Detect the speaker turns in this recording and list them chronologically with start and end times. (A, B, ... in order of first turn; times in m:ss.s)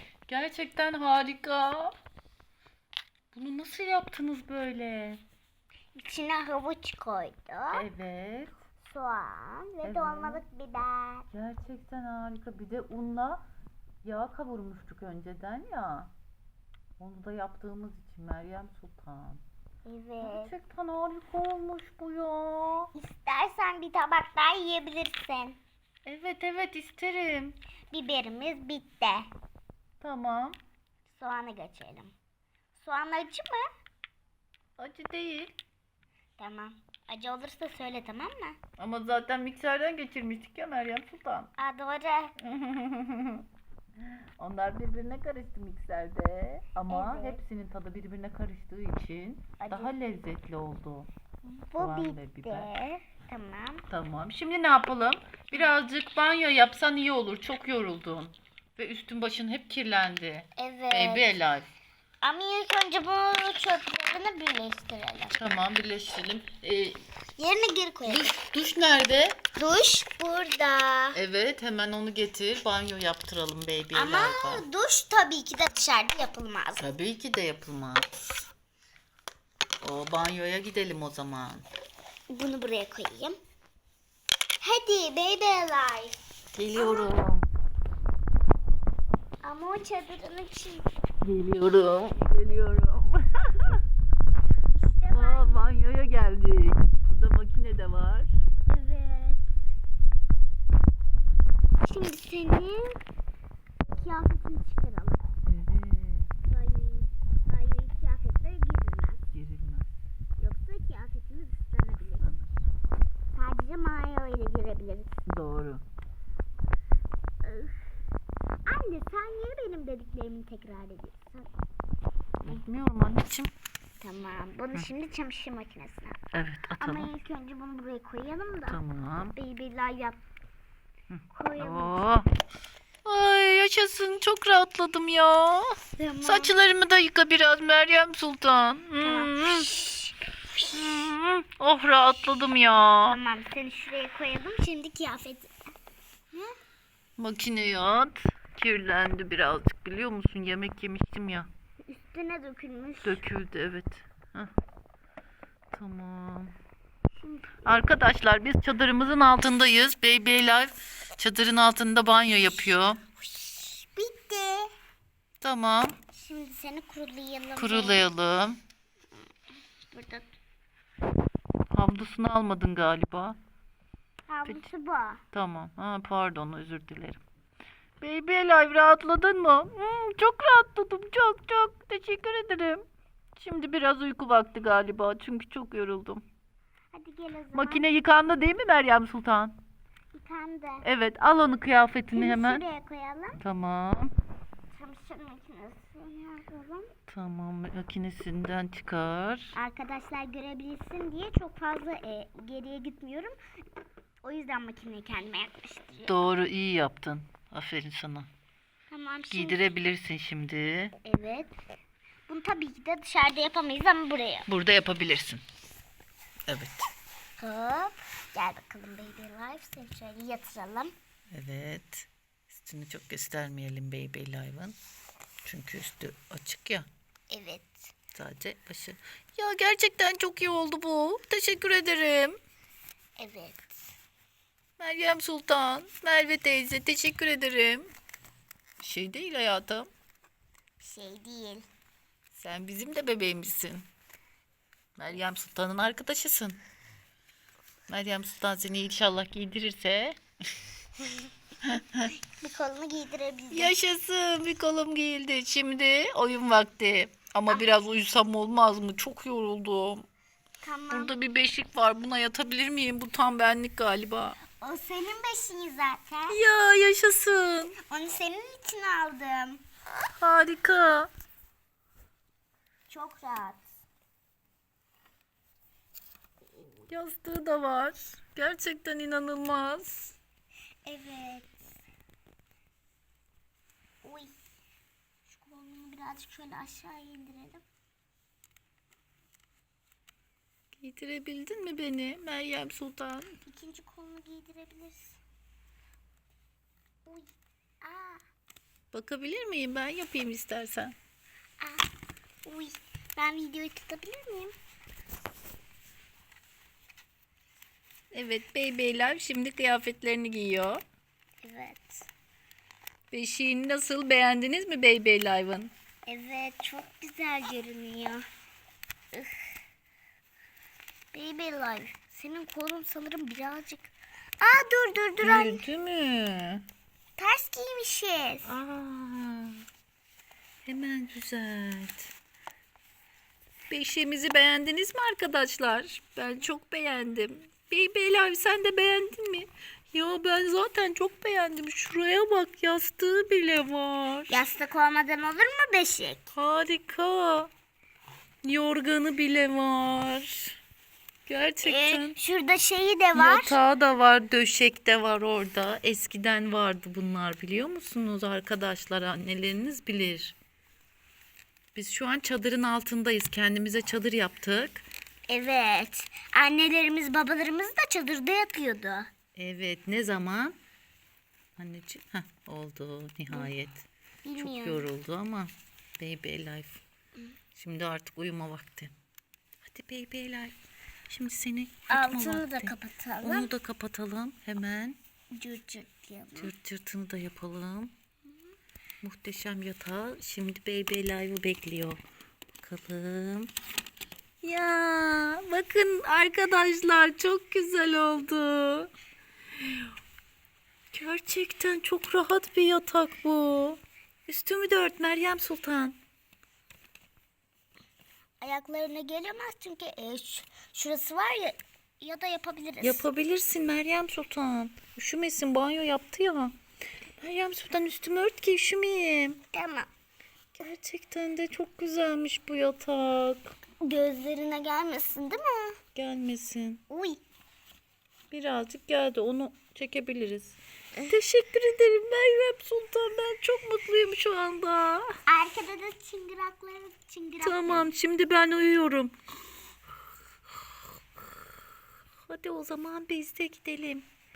0:00.3-0:01.9 A
0:03.3-0:05.2 A
0:06.0-0:07.8 B
0:07.7-0:08.5 A
0:08.8-0:11.3 B
0:09.8-0:10.4 A
0:11.3-0:13.4 A
0:14.0-0:16.1 A
0:17.0-0:19.4 A
0:19.8-0:20.5 B
0:20.2-0:22.9 A
0:22.9-0:25.6 B
0:26.0-0:27.6 A
0:27.9-0:29.3 B
0:30.0-0:30.6 A
0:31.1-0:32.1 B
0:32.8-0:33.7 B
0:34.8-0:35.5 A
0:36.4-0:38.6 B
0:38.8-0:41.5 A
0:41.6-0:42.3 B
0:42.4-0:43.4 A
0:44.4-0:51.1 A
0:46.9-0:47.4 B
0:49.6-0:49.9 B
0:51.4-0:53.8 B
0:51.8-0:52.7 A
0:53.9-1:01.7 A
1:00.6-1:01.4 B
1:02.2-1:05.4 B
1:05.3-1:07.0 A
1:07.4-1:08.4 B
1:08.1-1:09.4 A
1:09.6-1:11.2 B
1:11.1-1:14.6 A
1:13.9-1:16.8 B
1:16.8-1:18.2 A
1:19.8-1:21.7 A
1:22.3-1:23.4 B
1:24.6-1:26.2 B
1:26.5-1:27.5 A
1:26.7-1:27.1 B
1:29.4-1:30.9 B
1:31.2-1:33.8 A
1:34.7-1:35.8 B
1:35.1-1:38.3 A
1:38.7-1:39.5 B
1:41.8-1:43.0 B
1:43.9-1:45.3 B
1:45.4-1:46.3 A
1:46.4-1:49.2 B
1:49.3-1:49.9 A
1:50.4-1:52.3 B
1:52.2-1:52.7 A
1:53.3-1:55.1 B
1:55.3-1:55.8 A
1:57.4-1:57.9 B
1:58.7-2:01.5 B
2:02.4-2:03.5 A
2:04.0-2:06.2 B
2:06.3-2:07.1 A
2:06.7-2:08.8 B
2:08.7-2:09.4 A
2:09.4-2:10.2 B
2:11.1-2:12.3 A
2:11.4-2:12.1 B
2:13.0-2:19.8 A
2:16.0-2:16.5 B
2:19.0-2:20.1 B
2:20.7-2:23.2 A
2:23.1-2:25.5 B
2:27.2-2:31.5 A
2:31.9-2:33.2 B
2:33.0-2:34.5 A
2:35.7-2:36.5 A
2:37.2-2:38.0 B
2:37.6-2:43.0 A
2:43.2-2:44.7 B
2:45.4-2:46.0 A
2:46.1-2:48.0 B
2:47.6-2:48.6 A
2:49.9-2:50.3 B
2:51.7-2:53.4 A
2:54.3-2:55.2 B
2:55.3-2:57.2 A
2:58.0-3:02.8 A
3:03.4-3:06.2 A
3:06.9-3:07.9 B
3:07.5-3:09.6 A
3:10.1-3:10.9 B
3:10.8-3:12.7 A
3:12.1-3:13.4 B
3:13.4-3:14.1 A
3:14.7-3:16.9 B
3:17.1-3:19.6 A
3:19.5-3:23.4 B
3:24.2-3:26.2 B
3:26.1-3:28.3 A
3:28.9-3:29.6 B
3:29.3-3:31.0 A
3:31.0-3:31.6 B
3:32.3-3:34.5 B
3:34.5-3:35.4 A
3:36.5-3:36.9 A
3:37.4-3:40.9 B
3:41.3-3:44.8 A
3:45.4-3:46.9 A
3:47.3-3:47.9 B
3:48.1-3:52.4 A
3:53.2-3:53.9 B
3:54.8-3:57.9 A
3:58.8-3:59.9 A
4:00.8-4:01.7 B
4:02.3-4:03.9 A
4:05.0-4:06.6 A
4:07.9-4:10.2 A
4:11.6-4:12.1 A
4:12.4-4:13.8 B
4:13.5-4:20.1 A
4:17.5-4:17.8 B
4:20.6-4:21.1 B
4:20.9-4:24.4 A
4:24.6-4:26.4 B
4:26.3-4:27.8 A
4:27.9-4:29.6 B
4:30.2-4:31.1 A
4:32.9-4:33.7 B
4:36.9-4:40.2 A
4:40.8-4:41.6 B
4:44.0-4:44.3 B
4:45.3-4:47.6 B
4:50.8-4:53.4 A
4:53.4-4:55.2 B
4:57.1-4:58.2 B
4:58.9-5:01.0 A
5:01.6-5:01.9 B
5:02.4-5:04.6 B
5:08.1-5:10.8 A
5:11.4-5:12.1 B
5:13.1-5:15.7 A
5:16.1-5:18.2 B
5:19.1-5:19.5 B
5:21.1-5:25.7 B
5:25.2-5:26.6 A
5:27.2-5:28.5 B
5:28.4-5:29.6 A
5:30.7-5:32.1 A
5:33.7-5:44.4 A
5:44.3-5:46.3 B
5:46.4-5:47.5 A
5:48.4-5:50.6 A
5:51.3-5:52.2 A
5:51.6-5:53.6 B
5:53.1-6:00.4 A
6:01.8-6:04.8 A
6:05.3-6:09.1 B
6:09.4-6:10.6 A
6:11.6-6:13.8 A
6:14.2-6:14.9 B
6:14.4-6:16.8 A
6:17.6-6:18.9 A
6:19.6-6:20.6 A
6:21.1-6:25.0 A
6:21.9-6:23.5 B
6:25.3-6:26.5 B
6:26.4-6:27.9 A
6:29.0-6:32.0 A
6:32.6-6:33.5 A
6:34.4-6:38.9 A
6:40.9-6:46.0 A
6:48.4-6:53.1 B
6:52.8-6:56.5 A
6:57.2-6:59.4 A
6:59.5-6:59.9 B
7:00.6-7:03.6 A
7:03.8-7:05.8 B
7:06.0-7:06.8 A
7:06.9-7:07.2 B
7:08.3-7:15.1 A
7:15.3-7:17.9 B
7:17.4-7:19.1 A
7:22.3-7:24.1 A